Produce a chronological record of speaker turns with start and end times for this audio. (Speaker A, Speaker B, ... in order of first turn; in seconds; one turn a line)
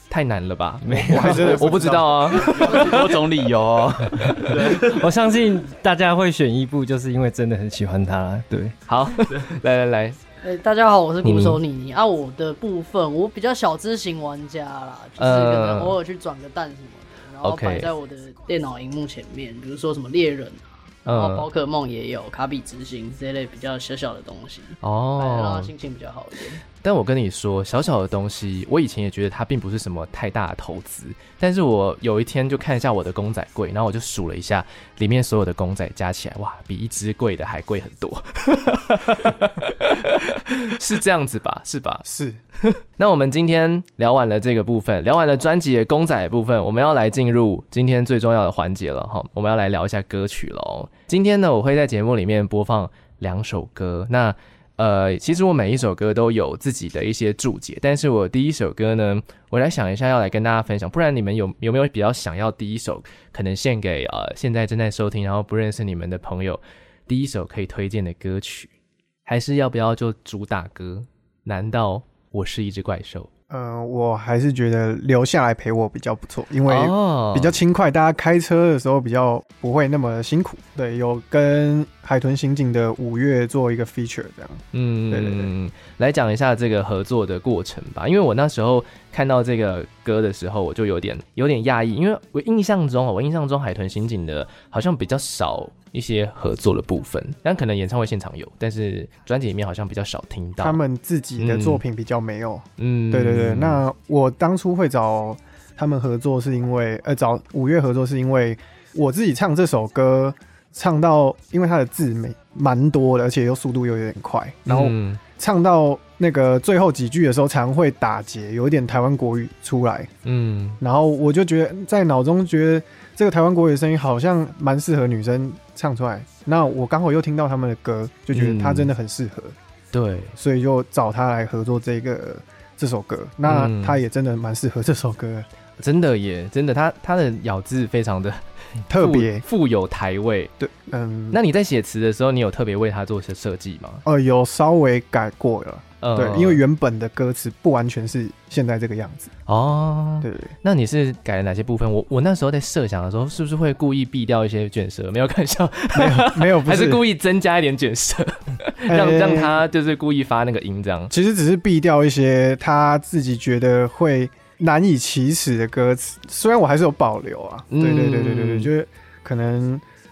Speaker A: 0.1-3.5
Speaker B: 0.8-1.5
Speaker C: 1.1-2.7
Speaker D: 2.4-5.0
Speaker B: 4.2-8.8
Speaker A: 8.9-10.2
Speaker E: 10.4-26.6
Speaker A: 11.2-11.6
Speaker A: 15.2-16.0
Speaker A: 17.4-17.9
Speaker A: 21.1-21.5
Speaker A: 24.8-25.7
Speaker A: 26.8-42.0
Speaker C: 42.0-42.4
Speaker A: 42.6-68.7
Speaker A: 69.3-73.3
Speaker C: 73.5-85.5
Speaker A: 76.7-77.6
Speaker A: 84.7-100.8
Speaker C: 100.6-120.1
Speaker A: 101.4-101.8
Speaker A: 102.8-103.8
Speaker A: 114.7-115.2
Speaker A: 120.2-120.8
Speaker C: 120.8-129.6
Speaker A: 128.3-128.9
Speaker A: 129.9-130.3
Speaker C: 130.4-135.5
Speaker A: 133.4-134.0
Speaker A: 135.8-140.5
Speaker C: 138.9-139.4
Speaker C: 140.6-141.4
Speaker A: 141.3-144.0
Speaker C: 144.1-149.3
Speaker A: 146.0-146.6
Speaker A: 149.5-161.1
Speaker C: 150.2-150.5
Speaker C: 155.9-157.0
Speaker C: 158.9-159.6
Speaker C: 161.1-169.8
Speaker A: 167.7-168.7